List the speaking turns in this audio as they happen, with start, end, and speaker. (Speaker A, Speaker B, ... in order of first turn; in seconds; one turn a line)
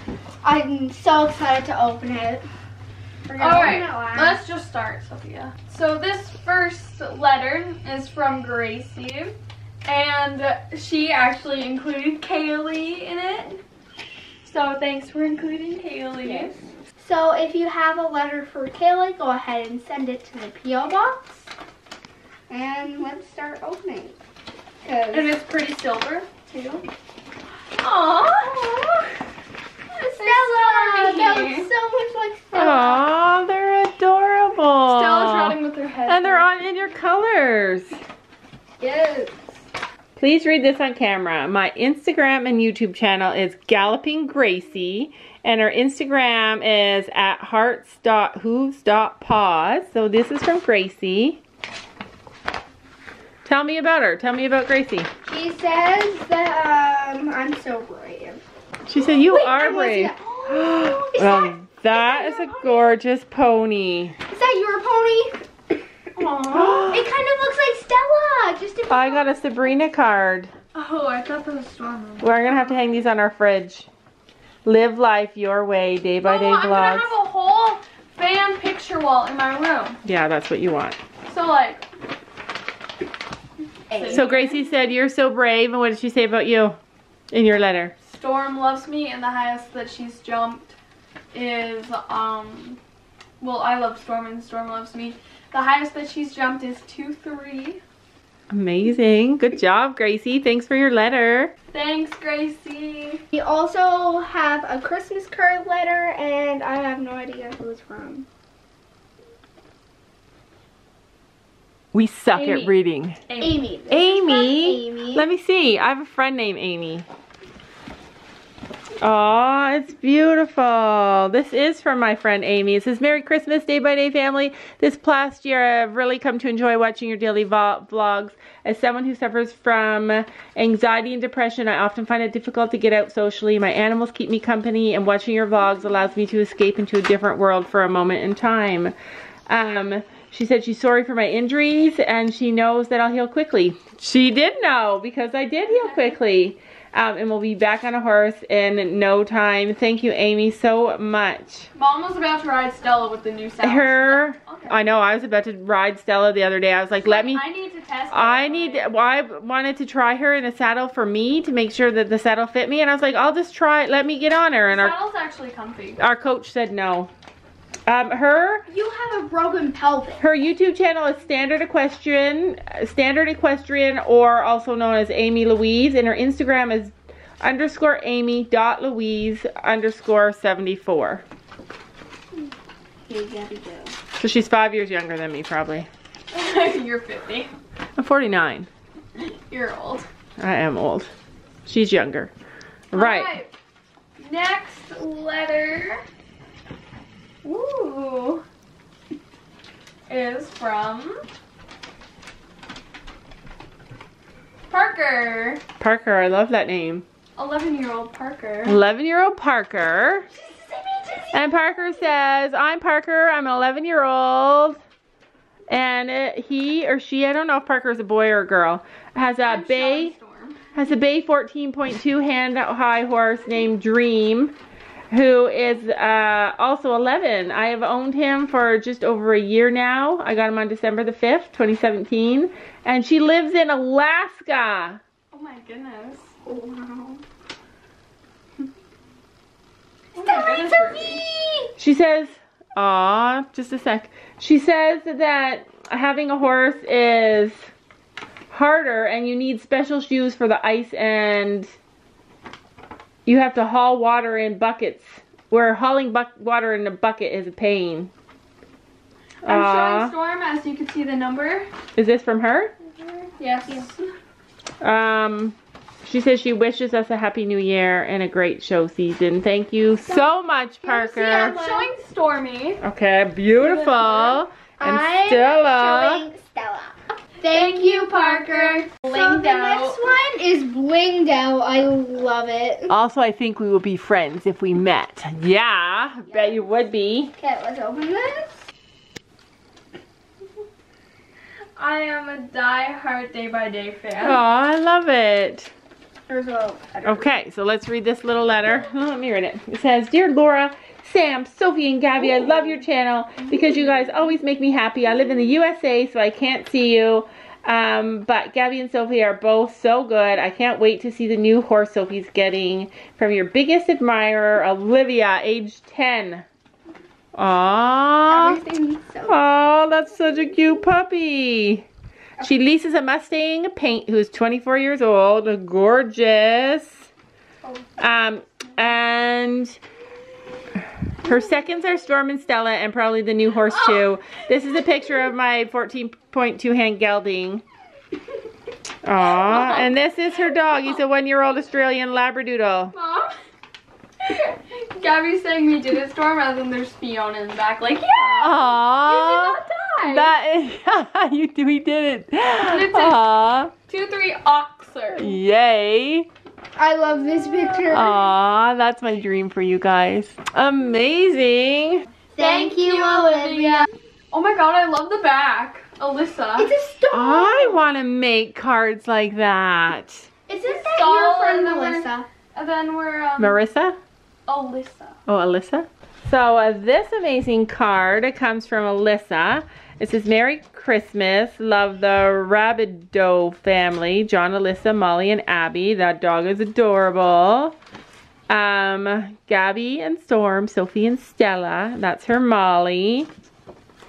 Speaker A: 0.4-2.4
Speaker A: 3.2-4.4
Speaker B: 3.4-9.3
Speaker B: 9.8-13.6
Speaker B: 14.4-16.6
Speaker A: 16.2-21.5
Speaker A: 22.5-24.2
Speaker A: 24.8-25.3
Speaker B: 25.1-26.8
Speaker B: 27.8-29.1
Speaker B: 29.9-31.7
Speaker A: 30.2-33.1
Speaker C: 32.5-37.9
Speaker B: 34.9-36.5
Speaker A: 38.8-39.4
Speaker C: 40.2-51.4
Speaker C: 53.4-55.1
Speaker A: 55.2-58.4
Speaker C: 58.9-64.2
Speaker A: 58.9-63.0
Speaker A: 64.3-65.4
Speaker B: 66.2-66.9
Speaker C: 66.5-67.1
Speaker A: 66.9-69.3
Speaker C: 68.9-70.5
Speaker B: 70.7-72.9
Speaker C: 72.2-73.9
Speaker C: 74.6-77.1
Speaker B: 76.2-80.0
Speaker C: 80.0-81.0
Speaker B: 81.2-81.8
Speaker B: 83.9-84.6
Speaker C: 84.1-86.8
Speaker C: 87.3-87.9
Speaker B: 88.0-90.7
Speaker B: 91.3-92.8
Speaker B: 93.4-97.8
Speaker C: 98.5-101.5
Speaker B: 101.7-103.2
Speaker A: 103.3-108.3
Speaker C: 111.9-113.2
Speaker B: 112.3-112.7
Speaker B: 113.2-113.6
Speaker A: 113.4-115.3
Speaker C: 113.9-117.1
Speaker C: 119.0-138.9
Speaker C: 139.5-151.7
Speaker B: 145.7-146.1
Speaker B: 151.7-154.7
Speaker C: 153.6-157.4
Speaker B: 157.0-158.9
Speaker C: 158.1-164.9
Speaker B: 164.7-166.0
Speaker C: 166.0-167.1
Speaker C: 167.9-168.7
Speaker A: 168.7-170.2
Speaker C: 170.2-181.2
Speaker A: 183.1-183.9
Speaker C: 184.2-185.9
Speaker B: 186.3-187.5
Speaker C: 188.0-188.7
Speaker B: 189.2-190.1
Speaker C: 190.4-191.1
Speaker C: 191.7-192.3
Speaker C: 192.9-193.3
Speaker B: 192.9-193.5
Speaker B: 194.2-196.0
Speaker B: 197.4-198.4
Speaker B: 200.1-201.2
Speaker B: 204.7-205.6
Speaker C: 205.8-207.0
Speaker B: 207.3-208.8
Speaker C: 208.7-210.3
Speaker B: 210.3-211.6
Speaker C: 211.3-214.8
Speaker C: 215.7-220.1
Speaker B: 219.4-220.6
Speaker C: 220.7-224.5
Speaker C: 225.1-235.0
Speaker B: 235.3-236.3
Speaker A: 236.4-237.2
Speaker B: 240.1-241.2
Speaker A: 240.2-241.7
Speaker C: 241.8-247.5
Speaker C: 248.5-251.7
Speaker C: 253.2-258.1
Speaker B: 259.4-261.7
Speaker C: 259.4-260.1
Speaker C: 261.9-262.7
Speaker B: 263.4-264.1
Speaker C: 264.8-271.6
Speaker A: 270.8-271.9
Speaker B: 271.4-272.8
Speaker C: 272.8-276.3
Speaker B: 273.5-274.4
Speaker A: 274.8-282.9
Speaker B: 277.5-280.0
Speaker C: 282.9-287.3
Speaker A: 286.3-286.8
Speaker A: 287.4-288.6
Speaker B: 291.8-294.4
Speaker C: 294.2-295.7
Speaker A: 296.3-297.3
Speaker C: 297.0-316.4
Speaker A: 302.4-302.7
Speaker C: 317.3-318.6
Speaker A: 318.3-319.4
Speaker C: 319.3-321.9
Speaker C: 322.4-327.0
Speaker C: 328.0-329.8
Speaker C: 331.2-337.6
Speaker C: 339.0-342.9
Speaker B: 339.2-339.9
Speaker B: 342.9-343.3
Speaker B: 344.2-350.3
Speaker C: 348.1-353.7
Speaker B: 352.7-353.2
Speaker B: 353.8-355.4
Speaker C: 355.1-356.3
Speaker A: 356.8-358.2
Speaker B: 357.4-357.8
Speaker C: 357.9-362.0
Speaker A: 362.4-363.9
Speaker B: 362.4-366.7
Speaker A: 366.6-367.8
Speaker C: 367.1-370.3
Speaker A: 370.5-372.3
Speaker B: 370.6-373.6
Speaker C: 373.4-374.0
Speaker B: 374.5-375.2
Speaker C: 375.3-387.8
Speaker C: 388.5-393.3